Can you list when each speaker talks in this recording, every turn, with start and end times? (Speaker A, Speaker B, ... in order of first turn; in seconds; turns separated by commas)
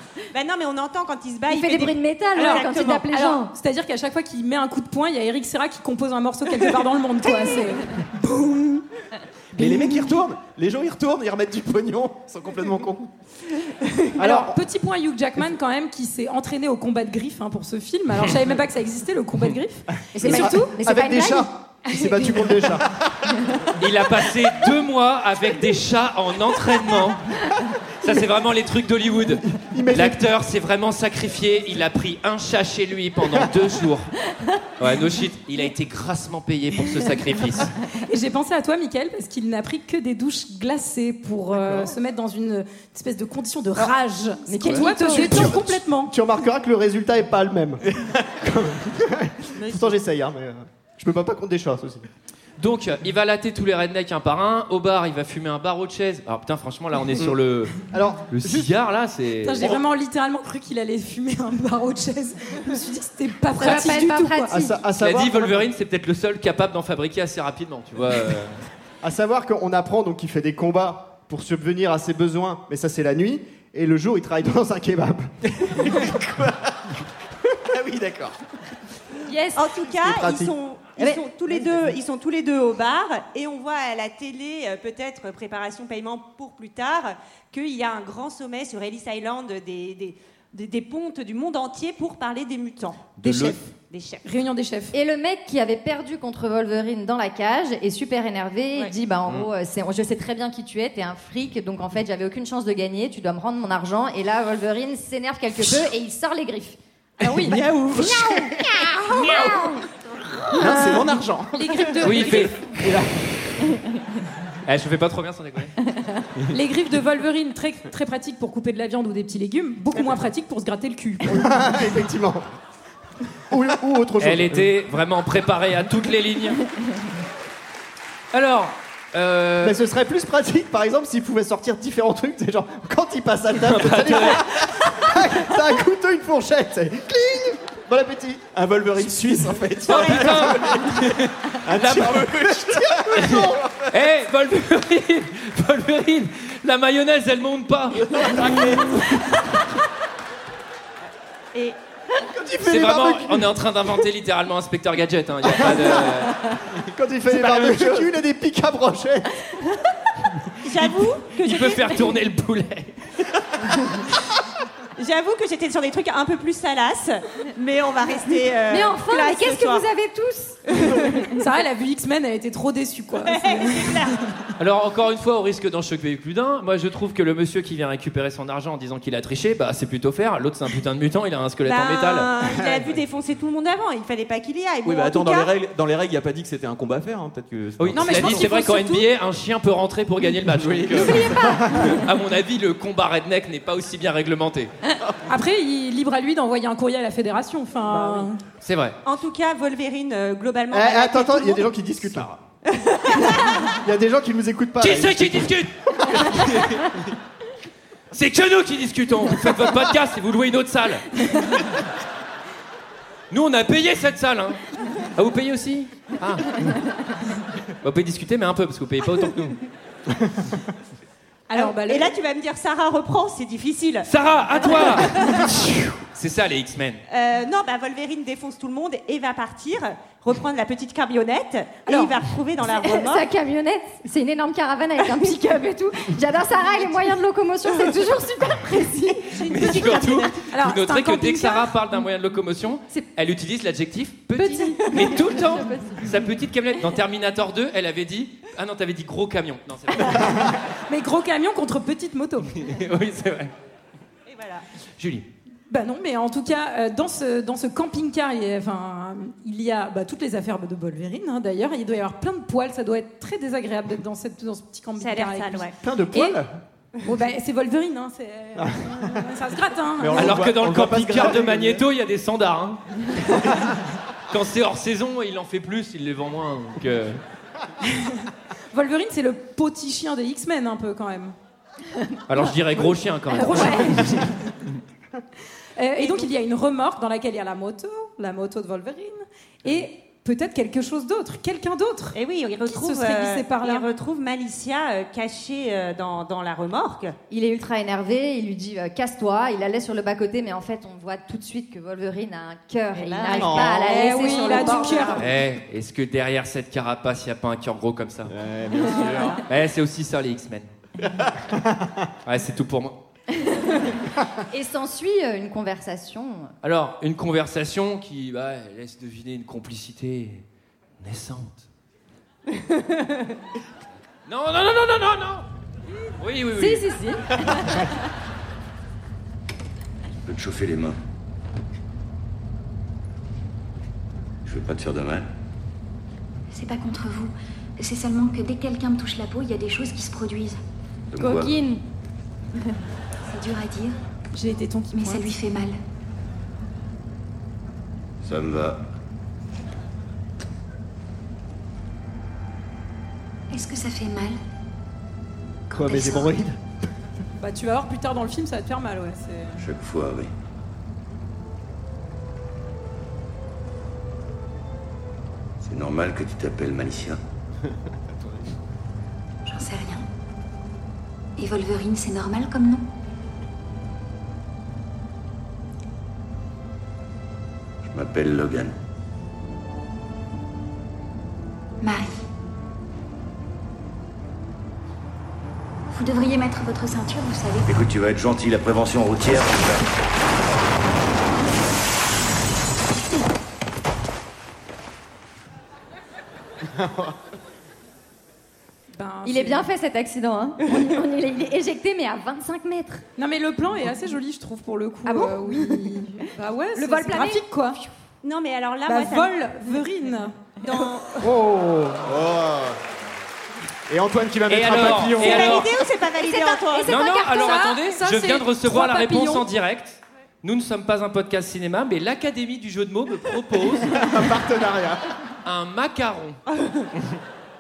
Speaker A: 0.3-3.0, Speaker B: 1.5-3.5, Speaker C: 2.4-8.8, Speaker D: 9.5-13.1, Speaker E: 14.2-14.6, Speaker C: 14.2-20.7, Speaker B: 20.1-21.5, Speaker E: 20.2-22.9, Speaker C: 21.9-22.6, Speaker F: 23.8-27.4, Speaker F: 28.0-34.1, Speaker E: 29.6-30.2, Speaker F: 34.8-37.7, Speaker C: 38.0-46.1, Speaker E: 41.6-41.9, Speaker B: 44.5-45.6, Speaker E: 44.7-52.1, Speaker D: 47.9-48.2, Speaker A: 49.6-49.9, Speaker F: 52.6-57.7, Speaker E: 57.9-58.7, Speaker F: 58.3-59.7, Speaker C: 59.4-64.5, Speaker B: 63.5-64.8, Speaker E: 64.5-65.7, Speaker F: 65.0-68.6, Speaker E: 69.0-76.1, Speaker D: 75.5-77.0, Speaker D: 77.7-78.4, Speaker B: 79.2-79.8, Speaker A: 79.5-94.2, Speaker E: 79.9-81.6, Speaker D: 93.2-93.6, Speaker C: 94.2-94.9, Speaker B: 94.9-106.8, Speaker C: 107.2-107.6, Speaker D: 107.2-108.6, Speaker B: 107.4-109.9, Speaker D: 109.2-109.5, Speaker D: 110.5-111.8, Speaker C: 111.5-112.6, Speaker F: 112.0-112.6, Speaker F: 114.6-115.7, Speaker C: 116.5-121.3, Speaker E: 121.2-122.5, Speaker E: 123.5-124.7, Speaker F: 124.2-126.7, Speaker F: 128.3-129.8, Speaker E: 129.6-138.4, Speaker F: 133.6-134.9, Speaker D: 138.5-143.9, Speaker F: 139.9-142.3, Speaker A: 139.9-140.3, Speaker E: 142.7-143.6, Speaker F: 143.1-148.5, Speaker D: 148.1-149.1, Speaker D: 152.4-153.2, Speaker E: 152.6-153.2, Speaker F: 152.6-156.4, Speaker E: 155.5-156.0, Speaker E: 156.9-159.4, Speaker D: 157.3-158.1, Speaker A: 160.6-162.0, Speaker F: 161.4-162.9, Speaker A: 165.0-169.8, Speaker B: 168.7-170.6, Speaker A: 170.7-171.1, Speaker C: 171.3-174.0, Speaker A: 173.2-174.2, Speaker F: 174.6-182.3, Speaker A: 181.6-185.5, Speaker D: 184.8-188.4, Speaker F: 187.8-194.7, Speaker C: 187.9-189.1, Speaker D: 190.4-191.7, Speaker B: 191.1-191.9, Speaker C: 191.4-191.8, Speaker E: 191.5-191.9, Speaker C: 195.3-198.4, Speaker E: 198.0-198.2, Speaker F: 198.6-198.9, Speaker A: 199.0-201.7, Speaker E: 200.7-202.3, Speaker A: 202.7-203.5, Speaker E: 203.6-206.2, Speaker F: 204.8-206.9, Speaker F: 208.1-211.2, Speaker F: 213.3-216.8, Speaker F: 217.8-219.6, Speaker C: 221.5-222.1, Speaker A: 221.5-224.1, Speaker F: 224.1-227.0, Speaker A: 224.6-225.4, Speaker A: 227.1-233.3, Speaker B: 232.7-239.8, Speaker C: 239.4-241.7, Speaker F: 239.5-250.5, Speaker C: 244.4-244.8, Speaker B: 244.8-246.1, Speaker C: 250.9-252.5, Speaker F: 252.5-253.5, Speaker A: 254.3-254.6, Speaker F: 255.0-255.2, Speaker C: 255.7-266.4, Speaker A: 265.0-265.8, Speaker E: 265.8-266.5, Speaker C: 267.0-270.3, Speaker D: 270.0-271.8, Speaker F: 270.1-273.2, Speaker F: 274.3-277.2, Speaker C: 278.7-281.3, Speaker F: 282.3-284.2, Speaker C: 283.3-284.4, Speaker B: 283.4-283.8, Speaker C: 285.8-293.9, Speaker A: 286.0-286.3, Speaker A: 292.1-297.1, Speaker B: 297.3-305.2, Speaker A: 302.9-305.2, Speaker D: 303.3-303.8, Speaker C: 303.8-305.2, Speaker F: 305.2-308.3, Speaker D: 308.3-309.4, Speaker F: 308.9-310.7, Speaker F: 312.2-312.9, Speaker B: 313.4-313.9, Speaker B: 314.5-316.5, Speaker F: 316.6-320.4, Speaker F: 321.0-321.6, Speaker F: 324.3-325.4, Speaker F: 326.2-326.9, Speaker B: 326.6-327.9, Speaker G: 330.2-330.9, Speaker G: 334.4-335.3, Speaker H: 336.5-340.6, Speaker G: 341.1-341.6, Speaker B: 341.2-341.8, Speaker H: 343.3-343.9, Speaker C: 344.3-345.3, Speaker H: 344.9-345.8, Speaker G: 348.2-348.8, Speaker H: 353.5-354.4, Speaker E: 355.7-356.6, Speaker H: 355.7-356.3, Speaker C: 357.4-359.6, Speaker G: 359.6-360.3, Speaker G: 365.6-367.2, Speaker H: 369.4-370.1, Speaker H: 371.4-372.9, Speaker G: 377.8-378.7, Speaker H: 381.8-382.2, Speaker H: 385.9-387.7, Speaker G: 387.7-389.9, Speaker C: 398.9-399.7, Speaker B: 399.2-403.0, Speaker C: 403.2-407.8, Speaker B: 405.1-406.0, Speaker B: 406.7-407.9, Speaker A: 408.2-409.3, Speaker C: 408.9-410.4, Speaker A: 410.6-411.3, Speaker E: 411.2-412.2, Speaker D: 412.1-412.8, Speaker D: 413.9-415.6, Speaker F: 414.5-415.7, Speaker A: 415.2-417.0, Speaker B: 416.2-417.7, Speaker F: 416.9-424.0, Speaker C: 417.0-419.4, Speaker E: 423.9-425.0, Speaker F: 425.4-426.4, Speaker A: 426.6-426.9